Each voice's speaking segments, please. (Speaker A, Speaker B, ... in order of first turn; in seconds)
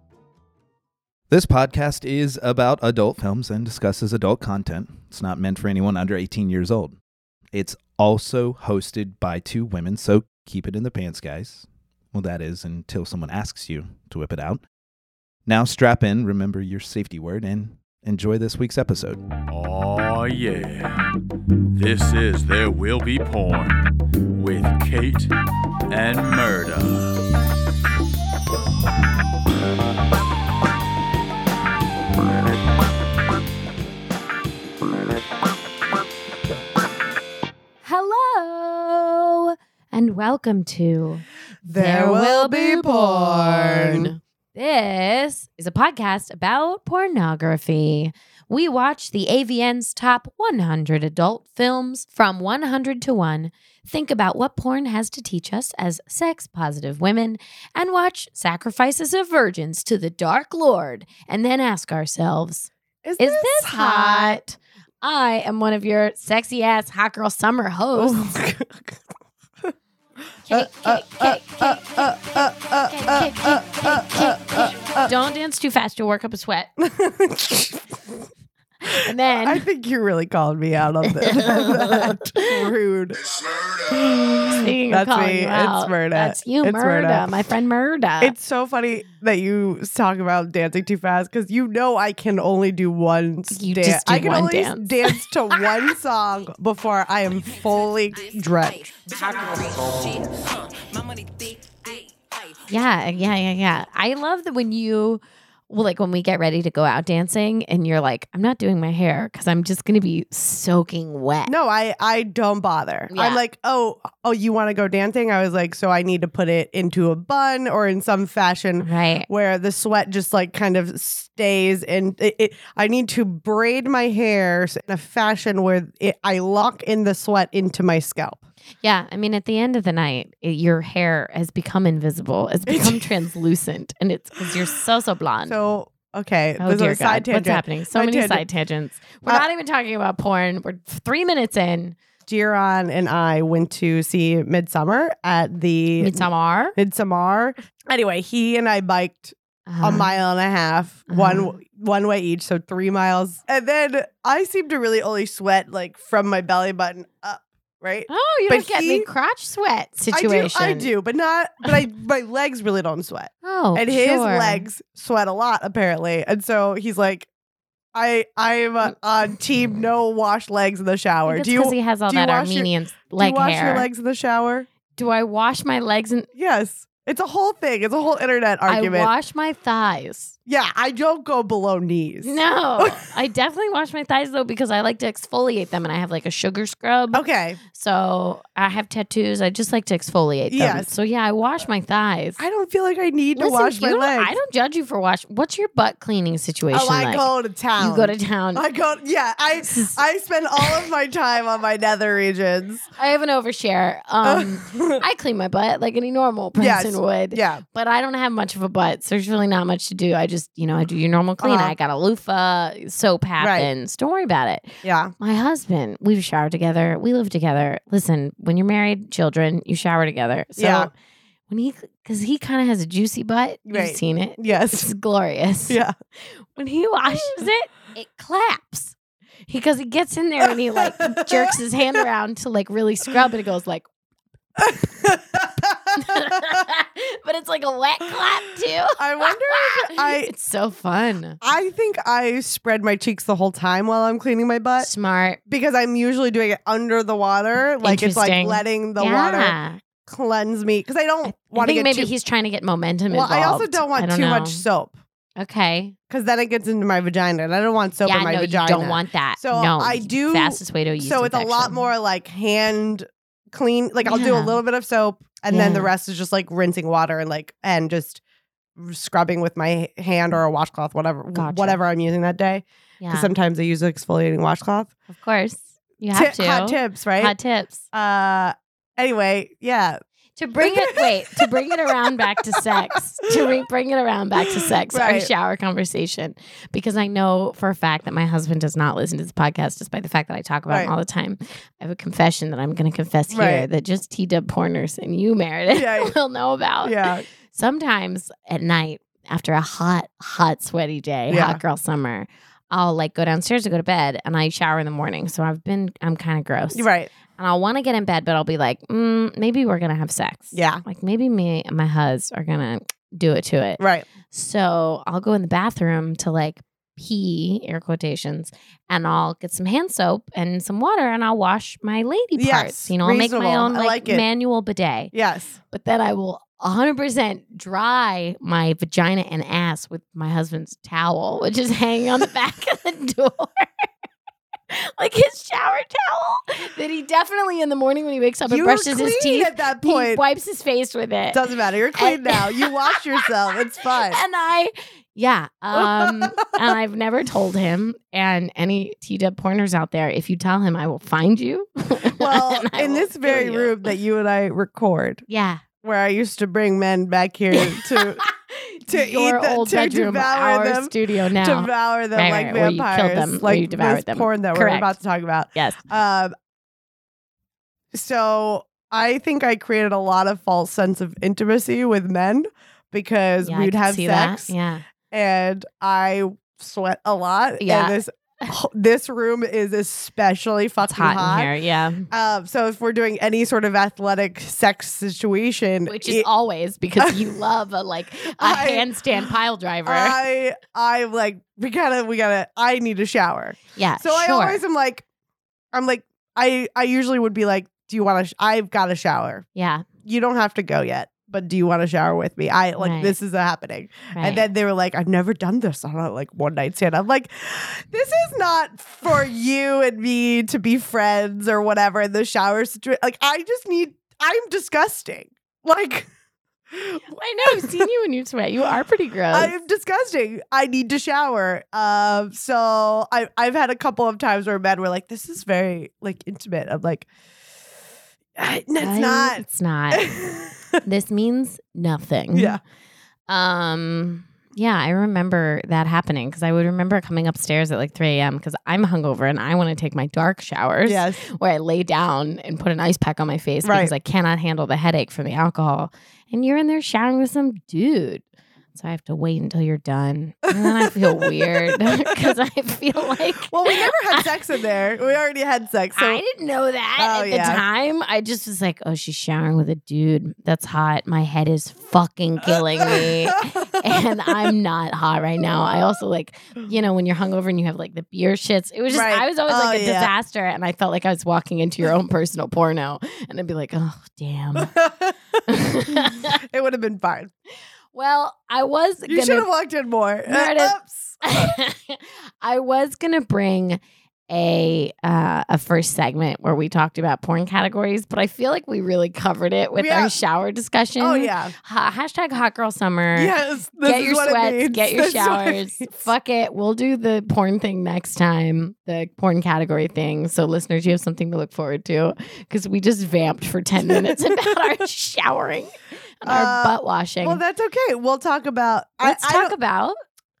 Speaker A: 1.3-7.0, 7.5-14.6, 15.4-19.2
Speaker B: 19.5-21.0, 21.7-25.3, 25.9-27.1
Speaker C: 37.8-68.4, 70.5-76.7, 78.9-79.6, 81.2-82.5, 84.5-88.3, 93.5-95.2, 102.7-111.5, 113.1-113.4, 118.8-119.3, 128.8-135.6, 136.6-141.9, 146.0-146.8, 149.7-150.1, 151.1-151.5, 158.1-160.9, 163.4-164.7, 171.3-173.9, 174.9-176.3, 178.7-180.3, 182.2-192.4, 193.3-198.6, 199.6-200.0, 203.0-220.9, 221.5-228.9, 229.5-233.8, 235.9-241.4, 244.8-245.4, 247.8-249.8, 251.2-254.6, 255.4-255.9, 258.0-261.8, 264.1-264.6, 265.5-265.9, 271.3-271.8, 273.0-273.3, 275.1-277.8, 280.4-325.1, 325.7-333.9, 334.7-341.4, 341.9-343.0, 343.8-353.9, 355.3-355.6, 357.5-365.0, 365.5-365.8, 373.4-374.8, 377.6-378.5, 380.8-382.1, 385.9-390.2, 393.8-394.6, 399.6-399.9, 402.8-403.1, 404.1-404.4, 417.1-419.5, 428.8-430.1, 430.8-432.6, 433.3-448.2, 448.7-454.3, 455.9-474.7, 475.5-476.4, 477.9-479.5, 480.3-507.4, 509.0-509.9
Speaker D: 41.6-44.1, 63.0-64.4, 67.9-69.0, 70.5-75.1, 76.8-78.1, 78.9-87.3, 88.2-99.4, 111.5-128.4, 132.7-133.1, 135.4-138.4, 142.2-159.1, 160.1-167.3, 167.9-174.7, 176.3-179.1, 180.5-183.0, 187.1-187.6, 190.5-190.9, 192.4-194.3, 196.7-202.8, 204.2-205.0, 206.6-207.6, 211.4-211.7, 213.4-213.7, 214.8-215.1, 220.6-220.9, 223.7-224.9, 225.7-225.9, 227.1-227.3, 230.4-231.5, 234.6-236.6, 239.0-240.3, 241.4-244.9, 245.5-252.1, 253.1-254.9, 256.1-268.2, 268.8-274.9, 276.1-277.3, 277.9-280.0, 280.6-281.5, 284.9-285.3, 293.3-293.6, 295.7-296.1, 296.8-297.2, 301.3-301.6, 306.7-307.1, 310.5-310.8, 313.8-314.1, 322.3-324.2, 325.1-325.6, 338.5-340.2, 341.3-344.2, 345.7-346.7, 352.2-355.2, 355.8-358.2, 358.9-366.3, 367.9-374.5, 375.1-381.5, 382.1-386.3, 388.3-388.9, 389.9-395.0, 395.7-399.4, 400.0-416.1, 416.7-417.9, 419.3-427.1, 428.4-430.8, 432.3-432.6, 440.8-441.2, 443.6-443.9, 450.5-452.3, 453.5-456.2, 456.9-457.6, 462.4-464.3, 468.9-470.1, 474.6-477.3, 479.1-481.5, 489.8-490.1, 491.0-491.5, 493.1-496.0, 503.9-504.6, 506.2-509.5